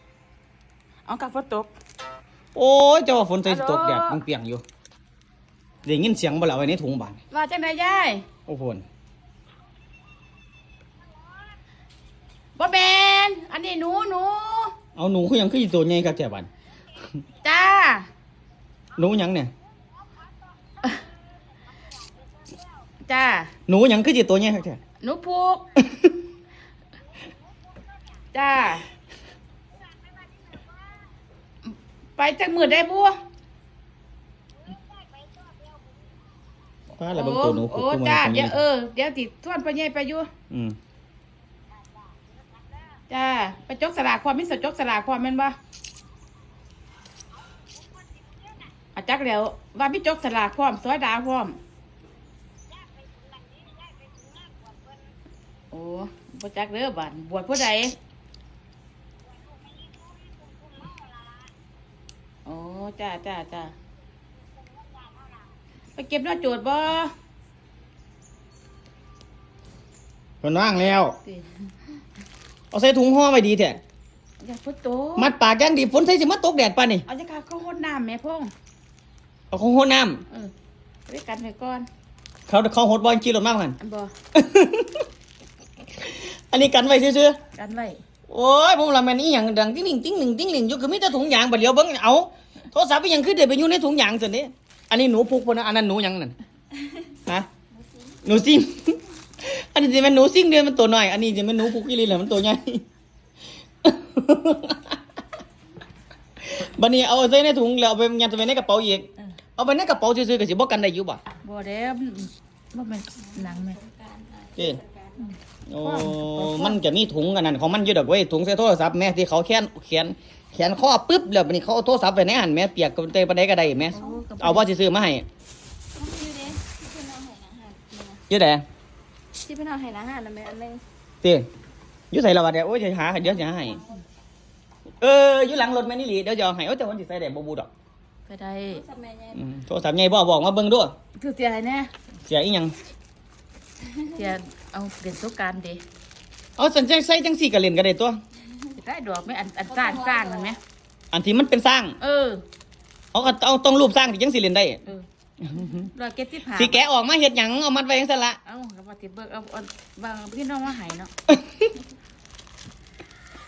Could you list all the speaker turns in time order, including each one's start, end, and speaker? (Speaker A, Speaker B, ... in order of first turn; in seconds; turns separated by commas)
Speaker A: 1.1-1.7, Speaker B: 2.5-4.6, Speaker A: 3.5-4.2, Speaker B: 5.8-7.2, Speaker A: 7.3-8.2, Speaker B: 8.5-8.8, Speaker A: 12.6-14.7, Speaker B: 14.9-16.5, Speaker A: 17.4-18.1, Speaker B: 18.9-19.5, Speaker A: 23.1-23.5, Speaker B: 23.7-24.8, Speaker A: 25.0-25.6, Speaker B: 25.8-26.1, Speaker A: 28.3-28.9, Speaker A: 32.2-33.2, Speaker B: 37.0-38.6, Speaker A: 37.1-40.3, Speaker B: 40.5-40.8, Speaker A: 43.1-45.6, Speaker A: 48.9-51.6, Speaker A: 55.7-58.0, Speaker A: 62.4-63.7, Speaker A: 66.0-67.1, Speaker B: 70.4-71.2, Speaker B: 72.7-73.8, Speaker A: 74.4-75.3, Speaker B: 75.2-77.0, Speaker A: 77.1-78.5, Speaker B: 79.5-80.2, Speaker A: 81.1-81.9, Speaker B: 82.5-83.8, Speaker A: 83.8-84.1, Speaker B: 84.3-85.0, Speaker B: 86.0-87.4, Speaker A: 87.5-88.0, Speaker B: 88.3-96.3, Speaker B: 98.2-102.8, Speaker B: 103.8-105.0, Speaker B: 106.4-111.2, Speaker A: 111.4-113.8, Speaker C: 113.4-115.3, Speaker B: 114.5-114.8, Speaker B: 115.7-125.2, Speaker A: 115.8-116.8, Speaker A: 123.9-124.7, Speaker C: 123.9-124.3, Speaker C: 126.0-128.2, Speaker B: 128.3-128.6, Speaker C: 129.4-130.8, Speaker B: 131.2-131.5, Speaker B: 132.1-133.8, Speaker B: 135.0-137.7, Speaker A: 138.3-138.8, Speaker C: 138.7-139.4, Speaker B: 139.3-140.9, Speaker A: 141.2-141.9, Speaker B: 142.3-142.7, Speaker A: 144.1-145.8, Speaker B: 146.6-148.2, Speaker A: 148.7-150.6, Speaker C: 149.7-150.6, Speaker B: 151.1-151.9, Speaker A: 152.0-152.4, Speaker B: 153.1-154.8, Speaker B: 155.4-155.9, Speaker A: 155.8-156.8, Speaker B: 156.5-158.4, Speaker A: 158.4-161.1